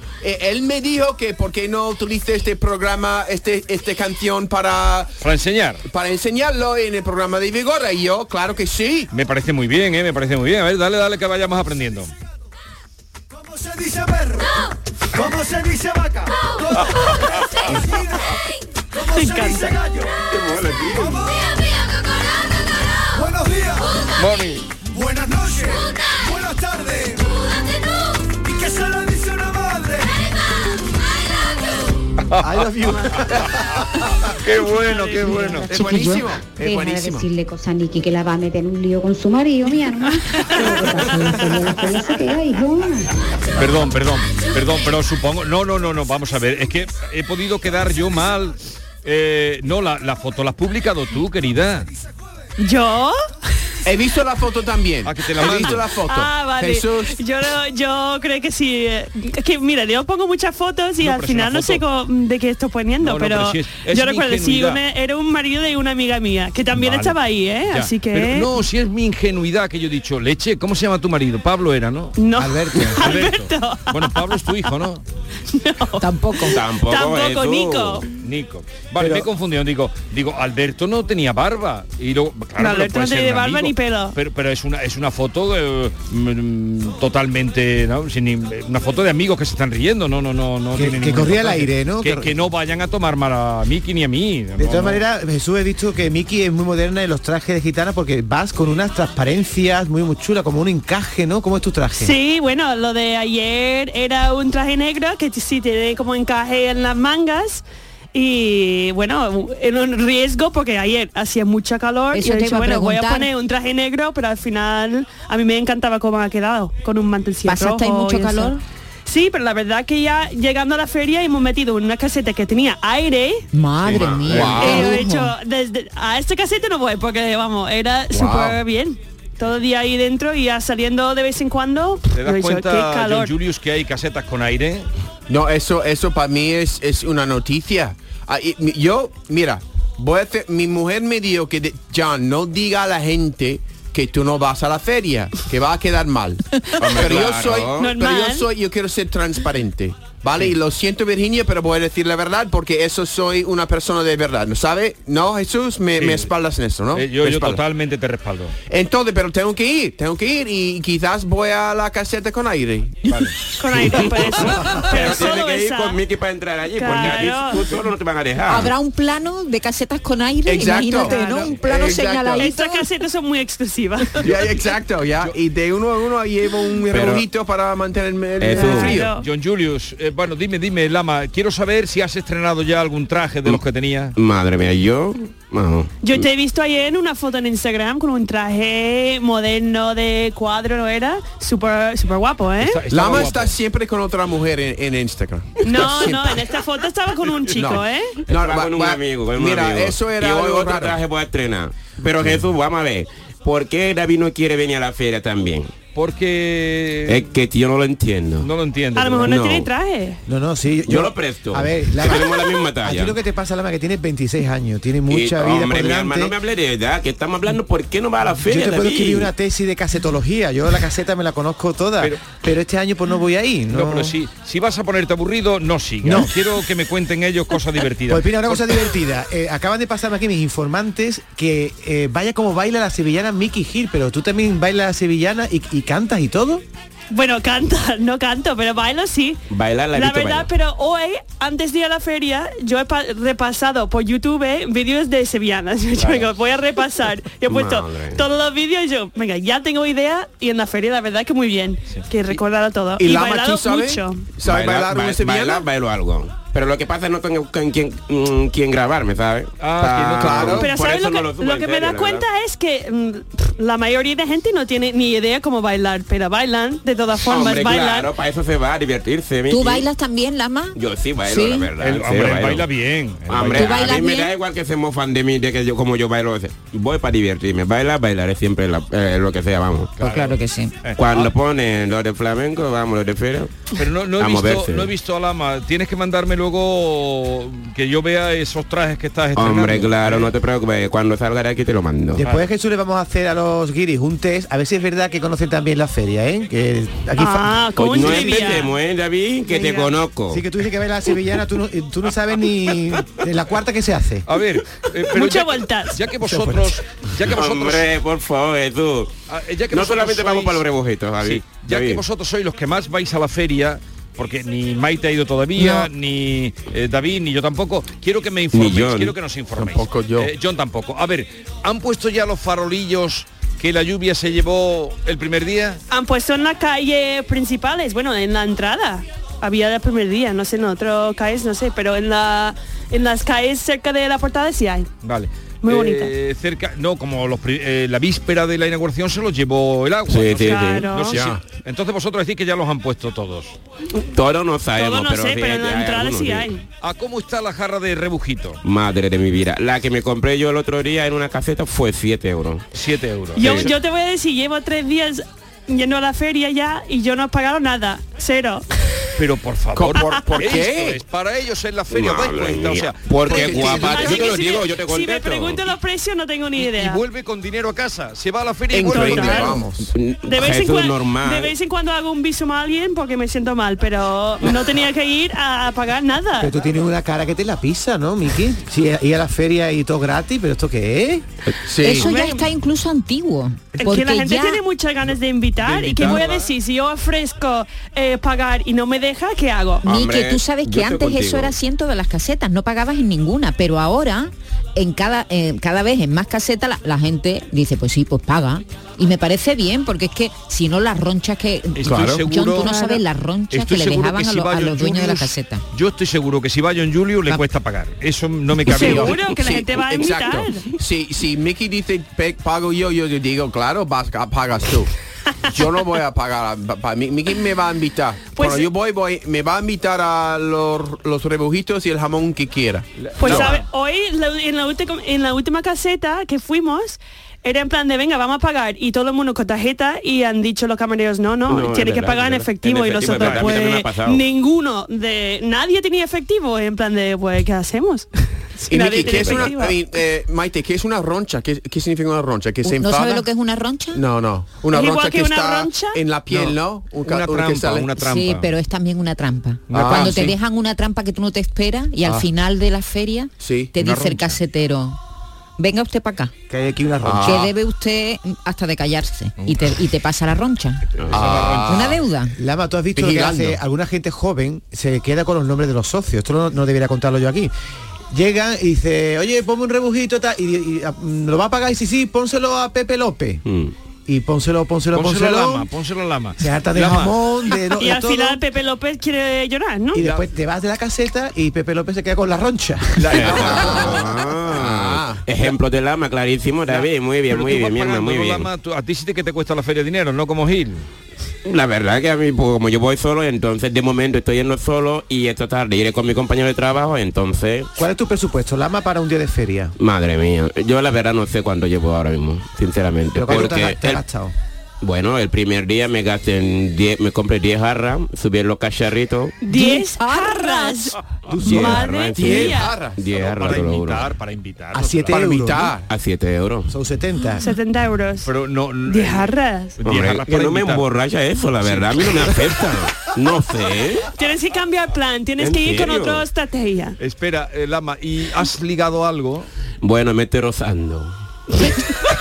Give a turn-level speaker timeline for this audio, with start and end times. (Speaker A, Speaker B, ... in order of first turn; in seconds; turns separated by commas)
Speaker A: 0.2-5.1, Speaker B: 5.2-5.8, Speaker A: 5.9-9.1, Speaker B: 9.1-12.1, Speaker C: 13.3-14.5, Speaker C: 15.1-18.4, Speaker B: 16.8-17.0, Speaker C: 18.9-20.2, Speaker D: 19.1-19.8, Speaker E: 20.3-21.2, Speaker C: 20.9-21.6, Speaker C: 23.1-24.1, Speaker B: 24.2-24.7, Speaker C: 24.9-27.5, Speaker C: 28.3-30.3, Speaker B: 32.3-33.2, Speaker F: 32.4-33.8, Speaker B: 34.4-35.8, Speaker D: 34.6-35.4, Speaker G: 35.1-43.1, Speaker A: 35.7-37.2, Speaker H: 35.8-36.2, Speaker D: 40.4-41.4, Speaker B: 43.6-51.9, Speaker D: 52.6-53.2, Speaker A: 53.8-57.2, Speaker B: 55.0-55.9, Speaker D: 55.4-68.5, Speaker B: 61.0-61.8, Speaker B: 63.0-64.8, Speaker B: 66.7-67.2, Speaker B: 67.7-72.2, Speaker D: 72.2-74.2, Speaker F: 72.4-73.1, Speaker B: 72.8-75.0, Speaker D: 75.5-78.1, Speaker H: 76.0-76.6, Speaker E: 76.5-78.0, Speaker B: 78.2-95.0, Speaker F: 79.0-79.2, Speaker D: 82.6-84.2, Speaker F: 90.7-92.3, Speaker F: 94.6-102.1, Speaker D: 102.0-123.5, Speaker H: 112.1-113.3, Speaker H: 117.5-118.6, Speaker H: 123.5-125.3, Speaker E: 123.9-124.7, Speaker B: 123.9-124.7, Speaker A: 124.3-124.9, Speaker D: 124.5-133.3, Speaker A: 128.1-128.6, Speaker B: 132.1-134.9, Speaker A: 135.3-157.6, Speaker E: 146.8-147.9, Speaker D: 147.8-148.5, Speaker B: 156.0-156.3, Speaker B: 156.9-158.5, Speaker A: 158.7-163.1, Speaker B: 163.1-163.3, Speaker D: 163.6-166.0, Speaker E: 164.5-168.7, Speaker D: 166.8-167.6, Speaker H: 168.5-172.9, Speaker A: 170.4-172.5, Speaker D: 171.0-171.5, Speaker D: 172.4-174.2, Speaker A: 174.2-179.1, Speaker E: 176.9-177.2, Speaker E: 178.4-179.0, Speaker D: 178.5-179.2, Speaker B: 179.2-184.1, Speaker E: 184.2-186.2, Speaker D: 186.0-192.8, Speaker B: 192.6-193.6, Speaker A: 192.9-196.5, Speaker D: 195.6-198.2, Speaker A: 197.5-201.0, Speaker E: 198.3-205.7, Speaker B: 205.9-207.2, Speaker E: 207.1-208.5, Speaker B: 208.4-209.3, Speaker D: 208.9-210.2, Speaker E: 209.2-209.7, Speaker F: 210.3-216.3, Speaker E: 210.8-213.2, Speaker E: 215.1-219.3, Speaker F: 218.4-224.1, Speaker B: 222.0-222.3, Speaker B: 223.7-228.8, Speaker F: 226.0-226.3, Speaker F: 228.1-236.6, Speaker D: 237.1-239.4, Speaker E: 239.5-240.5, Speaker D: 239.9-254.3, Speaker E: 246.0-246.2, Speaker E: 247.5-248.2, Speaker A: 253.0-255.7, Speaker E: 254.4-262.2, Speaker B: 259.6-260.6, Speaker A: 260.2-260.6, Speaker D: 260.5-268.1, Speaker E: 267.2-269.9, Speaker H: 269.5-271.7, Speaker E: 270.7-272.7, Speaker B: 271.8-273.9, Speaker E: 273.3-279.9, Speaker H: 273.5-274.3, Speaker B: 280.0-281.3, Speaker H: 280.0-280.8, Speaker E: 281.0-283.6, Speaker B: 283.7-290.3, Speaker E: 284.2-284.9, Speaker E: 289.3-292.2, Speaker F: 292.1-298.5, Speaker D: 297.2-298.7, Speaker E: 297.8-300.5, Speaker D: 299.5-299.9, Speaker F: 300.3-304.2, Speaker B: 304.3-307.9, Speaker D: 305.1-306.0, Speaker F: 306.2-306.8, Speaker E: 307.3-309.1, Speaker B: 309.3-310.6, Speaker E: 309.7-312.0, Speaker B: 311.2-325.8, Speaker E: 318.5-319.1, Speaker A: 319.6-320.3, Speaker D: 325.9-334.9, Speaker B: 335.0-343.5, Speaker D: 335.6-336.1, Speaker E: 340.1-340.9, Speaker D: 340.4-341.2, Speaker A: 341.1-341.4, Speaker E: 344.1-346.5, Speaker D: 344.8-346.6, Speaker B: 346.8-348.6, Speaker E: 348.6-352.6, Speaker B: 352.7-353.7, Speaker D: 353.4-358.6, Speaker E: 353.4-353.7, Speaker B: 359.2-364.3, Speaker A: 359.7-361.0, Speaker E: 361.9-365.6, Speaker A: 363.3-364.1, Speaker D: 363.6-367.0, Speaker B: 366.6-369.6, Speaker A: 368.7-369.9, Speaker D: 368.9-369.6, Speaker E: 369.9-371.5, Speaker D: 370.3-376.5, Speaker F: 376.4-381.2, Speaker A: 381.6-382.1, Speaker H: 381.8-384.6, Speaker D: 381.9-382.4, Speaker D: 383.8-389.8, Speaker B: 385.6-386.5, Speaker H: 389.8-405.6, Speaker E: 389.8-391.5, Speaker B: 401.8-409.2, Speaker D: 408.7-410.7, Speaker A: 408.7-414.9, Speaker A: 415.5-423.5, Speaker D: 418.3-418.7, Speaker B: 423.0-423.6, Speaker D: 423.2-439.8, Speaker E: 431.5-434.2, Speaker B: 433.0-433.6, Speaker A: 438.7-443.2, Speaker E: 439.0-439.5, Speaker H: 442.6-444.0, Speaker A: 443.9-447.9, Speaker D: 444.7-446.0, Speaker B: 447.0-448.5, Speaker H: 447.9-455.0, Speaker A: 449.7-450.4, Speaker B: 449.7-450.1, Speaker A: 453.4-453.7, Speaker B: 453.8-454.4, Speaker H: 455.6-456.3, Speaker F: 456.5-457.5, Speaker A: 457.0-457.5, Speaker H: 457.2-460.8, Speaker E: 461.0-461.4, Speaker B: 461.1-461.9, Speaker A: 461.1-462.0, Speaker H: 461.6-462.3, Speaker F: 462.4-467.5, Speaker A: 462.9-463.6, Speaker F: 468.1-473.4, Speaker E: 473.4-473.7, Speaker F: 474.1-475.7, Speaker B: 474.9-477.2, Speaker F: 476.4-478.4, Speaker D: 477.8-480.0, Speaker F: 479.9-483.7, Speaker B: 480.0-480.2, Speaker B: 483.0-484.1, Speaker E: 483.1-488.5, Speaker A: 484.5-485.2, Speaker B: 486.7-490.8, Speaker E: 491.4-497.7, Speaker F: 497.8-499.7, Speaker E: 499.8-504.0, Speaker F: 503.1-504.3, Speaker E: 504.8-509.4, Speaker D: 509.4-512.7, Speaker H: 509.5-510.8, Speaker F: 511.3-512.0, Speaker B: 511.3-511.8, Speaker E: 511.4-514.1, Speaker A: 512.2-513.0, Speaker B: 513.1-515.3, Speaker F: 514.7-515.7, Speaker A: 515.1-515.9, Speaker E: 515.9-516.7, Speaker F: 516.7-517.5, Speaker D: 517.4-518.3, Speaker B: 518.2-520.8, Speaker D: 518.9-519.7, Speaker E: 519.8-524.1, Speaker B: 521.6-522.5, Speaker D: 524.1-527.0, Speaker E: 525.4-526.2, Speaker B: 527.0-529.5, Speaker E: 529.8-531.1